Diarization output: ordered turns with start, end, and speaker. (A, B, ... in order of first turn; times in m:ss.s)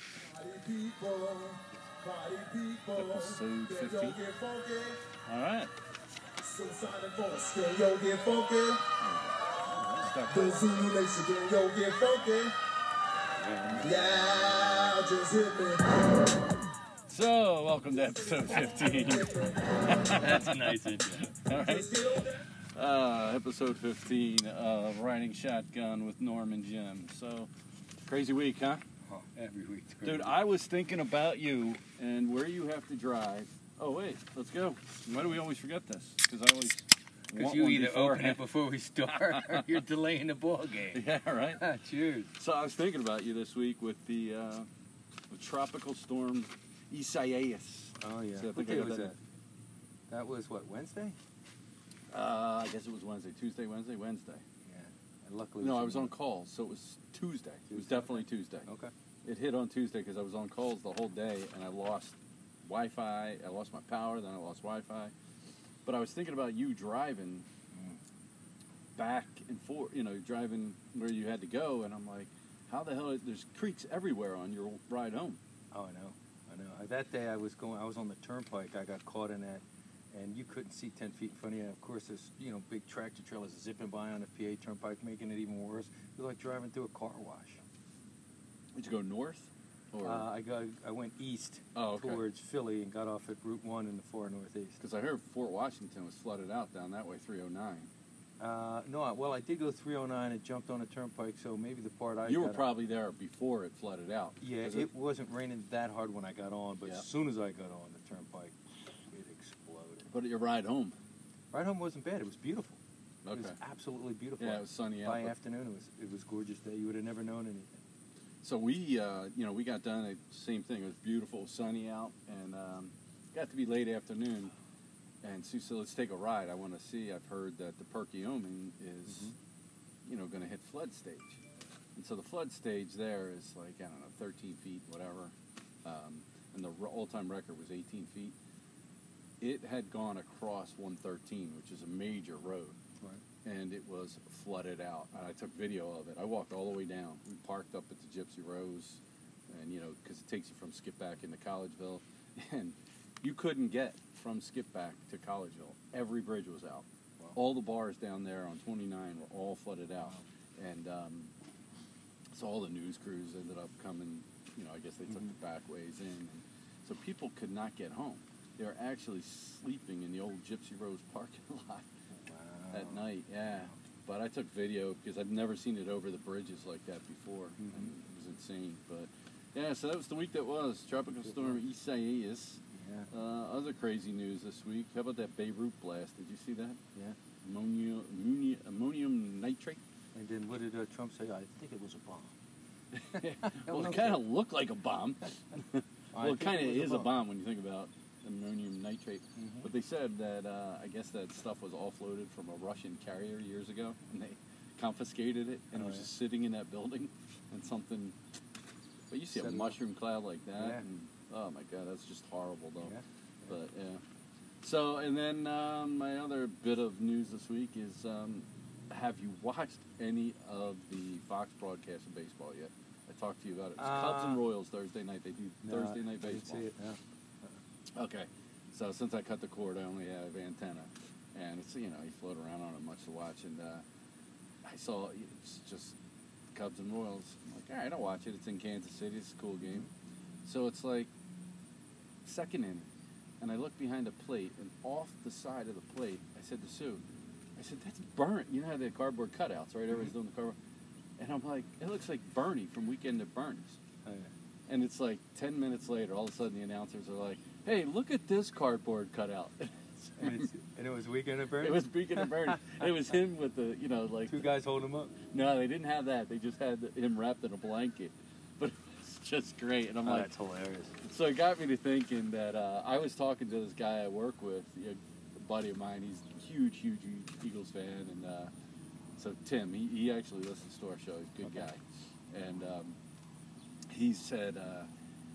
0:00.2-0:05.0 A
0:02.9-0:04.2 B
0:05.2-0:05.7 B
0:06.4-0:08.8 A
0:09.0-0:10.9 B
0:10.3-0:12.5 A
0:13.4-0:13.9 C
0:13.8-0:15.9 A
0:17.1-0:22.0 B
0:18.2-0:20.0 A
0:20.1-0:21.3 C
0:21.5-0:22.4 A
0:22.7-0:27.5 B
0:28.0-0:28.8 B
0:29.0-0:30.4 C
0:30.0-0:38.4 B
0:37.3-0:42.3 C
0:39.0-0:39.8 B
0:40.9-0:41.6 B
0:42.4-0:44.7 B
0:45.3-0:49.1 B
0:48.0-0:49.2 C
0:50.1-0:51.2 C
0:52.1-0:54.4 B
0:54.6-0:56.1 C
0:55.6-0:58.7 B
0:57.7-0:58.9 C
0:59.2-1:05.1 B
1:05.8-1:07.5 B
1:07.7-1:08.0 C
1:09.0-1:15.4 B
1:15.7-1:27.6 C
1:28.7-1:30.2 B
1:30.0-1:34.8 C
1:31.7-1:32.2 B
1:34.8-1:37.9 B
1:38.4-1:42.6 C
1:42.2-1:44.9 B
1:44.4-1:48.6 C
1:49.1-1:50.1 C
1:50.1-1:51.0 B
1:51.5-1:52.8 C
1:53.2-1:53.6 B
1:53.3-1:57.8 C
1:54.4-1:55.3 B
1:58.4-2:04.5 B
2:05.2-2:09.3 B
2:09.0-2:09.3 C
2:10.0-2:11.4 B
2:11.9-2:18.4 B
2:19.4-2:22.8 B
2:23.4-2:41.3 B
2:42.3-2:51.9 B
2:45.0-2:45.3 C
2:52.1-2:53.8 C
2:52.7-3:06.8 B
2:57.6-2:57.9 C
3:01.2-3:01.6 C
3:02.7-3:03.1 C
3:07.4-3:09.8 B
3:10.1-3:12.3 C
3:12.9-3:28.2 B
3:13.1-3:14.2 C
3:16.1-3:17.1 C
3:19.4-3:19.7 C
3:25.7-3:26.1 C
3:29.1-3:33.0 B
3:29.3-3:29.8 C
3:30.6-3:30.8 C
3:32.8-3:33.6 C
3:33.5-3:34.0 B
3:34.6-3:46.7 B
3:43.8-3:44.4 C
3:45.6-3:47.6 C
3:47.9-3:53.8 B
3:54.6-3:56.0 B
3:56.5-3:59.8 B
4:00.4-4:01.1 B
4:02.2-4:02.9 B
4:03.4-4:07.0 B
4:07.6-4:10.6 B
4:11.2-4:13.8 B
4:14.0-4:14.3 C
4:14.7-4:20.5 B
4:20.2-4:22.8 C
4:21.6-4:24.5 B
4:24.3-4:25.1 C
4:25.2-4:30.3 B
4:30.0-4:30.9 C
4:31.0-4:38.5 B
4:39.2-4:43.0 B
4:41.4-4:41.7 C
4:43.9-4:44.9 B